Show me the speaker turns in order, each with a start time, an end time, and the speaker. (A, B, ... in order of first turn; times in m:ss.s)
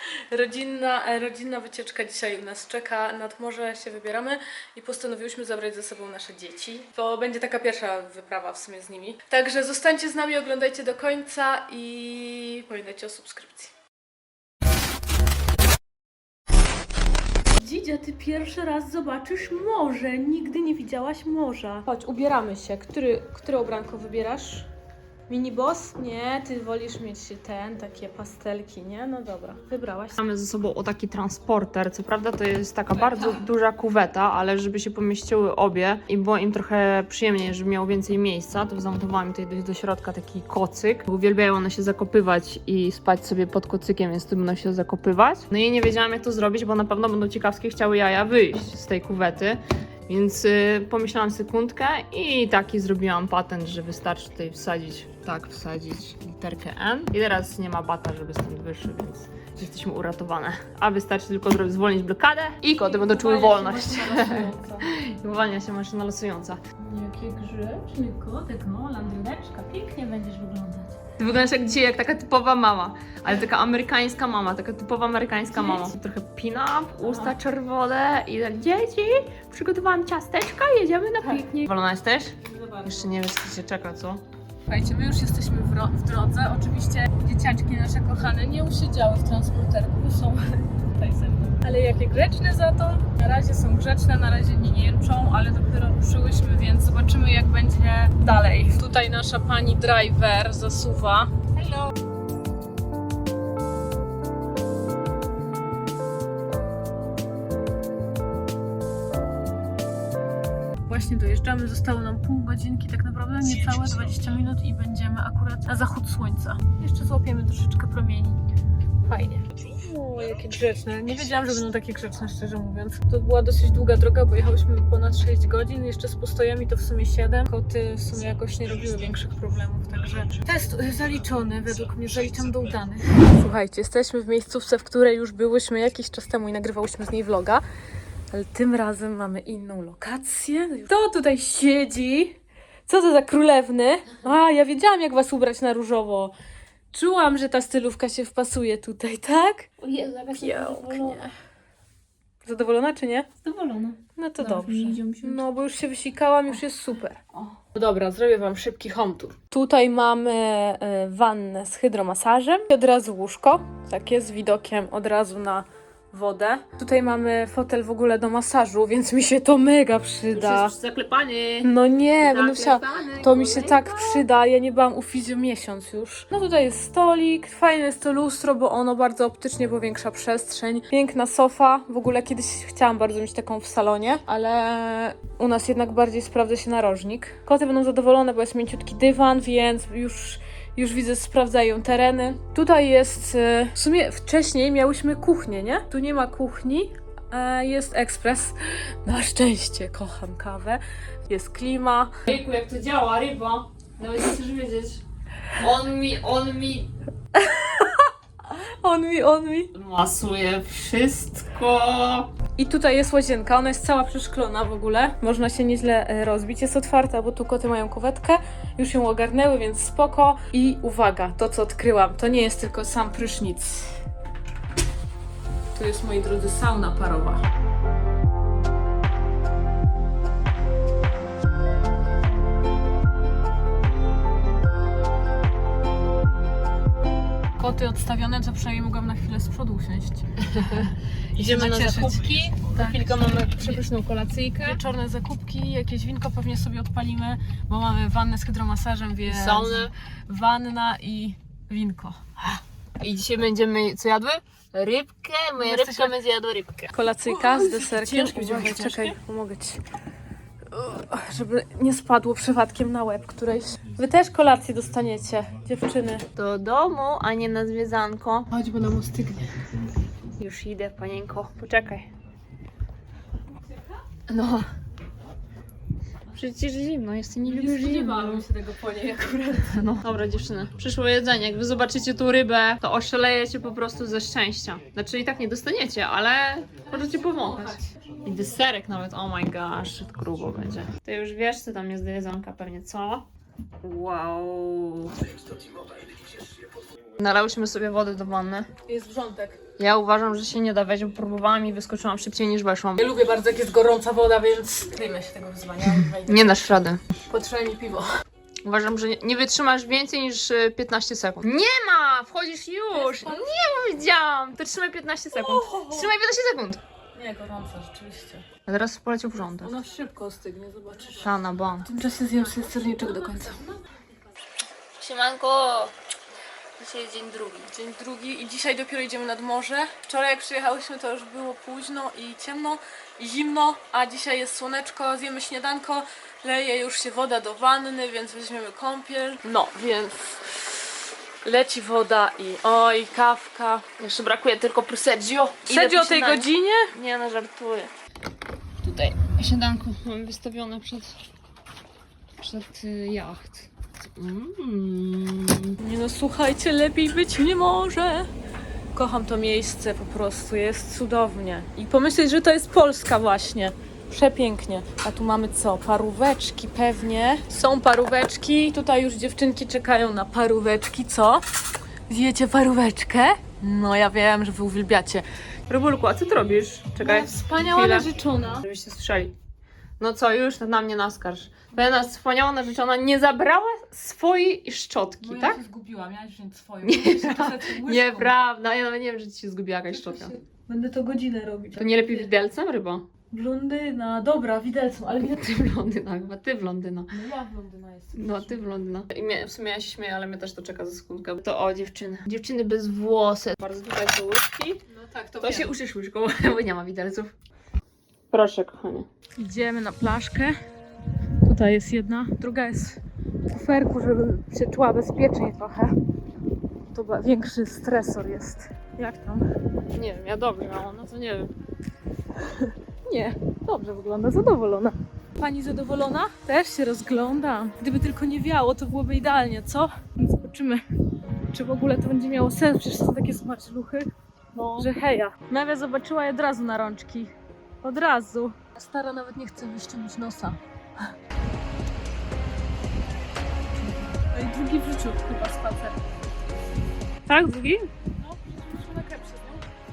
0:00.3-0:13.7 A
0:17.6-0:24.7 A
0:25.3-0:30.2 A
0:30.2-1:06.6 B
0:32.9-0:33.4 A
1:02.8-1:04.9 A
1:06.8-1:11.0 A
1:11.2-1:24.2 B
1:15.5-1:15.9 A
1:17.0-1:17.3 A
1:21.2-1:21.4 A
1:22.4-1:23.2 A
1:24.7-1:41.8 A
1:50.8-1:58.4 A
1:59.0-2:17.6 A
2:18.3-2:26.3 A
2:26.9-2:29.7 A
2:29.8-2:31.2 B
2:30.3-2:31.3 A
2:32.4-2:33.3 A
2:33.4-2:35.4 B
2:34.2-2:37.2 A
2:37.7-2:50.7 A
2:50.3-2:51.7 B
2:51.6-3:22.1 A
2:52.2-2:54.2 B
3:22.3-3:25.0 B
3:25.6-3:26.9 B
3:27.3-3:29.7 A
3:29.7-3:32.3 B
3:32.6-3:43.9 A
3:45.7-3:47.4 A
3:57.6-4:00.3 A
4:00.6-4:04.8 B
4:01.4-4:03.8 A
4:04.6-4:12.2 A
4:09.2-4:09.9 B
4:12.4-4:19.2 B
4:15.6-4:16.2 A
4:16.9-4:19.8 A
4:20.7-4:26.2 A
4:26.4-4:28.5 B
4:28.5-4:29.5 A
4:30.4-4:32.1 B
4:34.3-4:34.6 B
4:36.3-4:38.4 B
4:37.4-4:39.9 A
4:39.7-4:53.2 B
4:46.9-4:47.8 A
4:53.8-4:55.1 B
4:57.2-4:58.7 B
4:58.9-4:59.6 A
4:59.8-5:03.0 B
5:03.0-5:06.6 A
5:06.0-5:07.0 B
5:07.3-5:08.1 A
5:08.6-5:16.8 B
5:12.9-5:13.5 A
5:15.3-5:16.1 A
5:17.1-5:18.4 A
5:18.6-5:19.8 B
5:19.6-5:21.3 A
5:21.2-5:21.9 B
5:21.8-5:23.6 A
5:25.0-5:25.9 B
5:26.8-5:27.7 B
5:27.7-5:40.9 A
5:41.4-5:43.8 A
5:44.0-5:47.9 B
5:45.7-5:46.9 A
5:48.8-5:51.1 B
5:52.4-5:55.8 B
5:55.8-5:58.3 A
5:58.9-6:11.4 A
6:12.1-6:15.2 A
6:15.7-6:19.3 B
6:17.0-6:18.6 A
6:20.0-6:25.6 B
6:25.2-6:28.3 A
6:26.8-6:30.3 B
6:29.9-6:32.3 A
6:31.8-6:33.1 B
6:33.3-6:35.6 A
6:35.3-6:37.1 B
6:37.1-6:38.6 A
6:38.1-6:44.8 B
6:44.9-6:45.7 A
6:45.4-6:47.3 B
6:48.3-6:49.1 B
6:49.4-6:50.6 A
6:51.4-6:53.0 A
6:53.5-6:55.9 A
6:56.9-6:59.5 A
6:59.9-7:01.5 B
7:02.5-7:10.8 A
7:11.5-7:14.1 A
7:14.5-7:14.9 B
7:14.8-7:20.6 A
7:24.1-7:26.0 A
7:27.3-7:27.9 B
7:28.1-7:29.6 A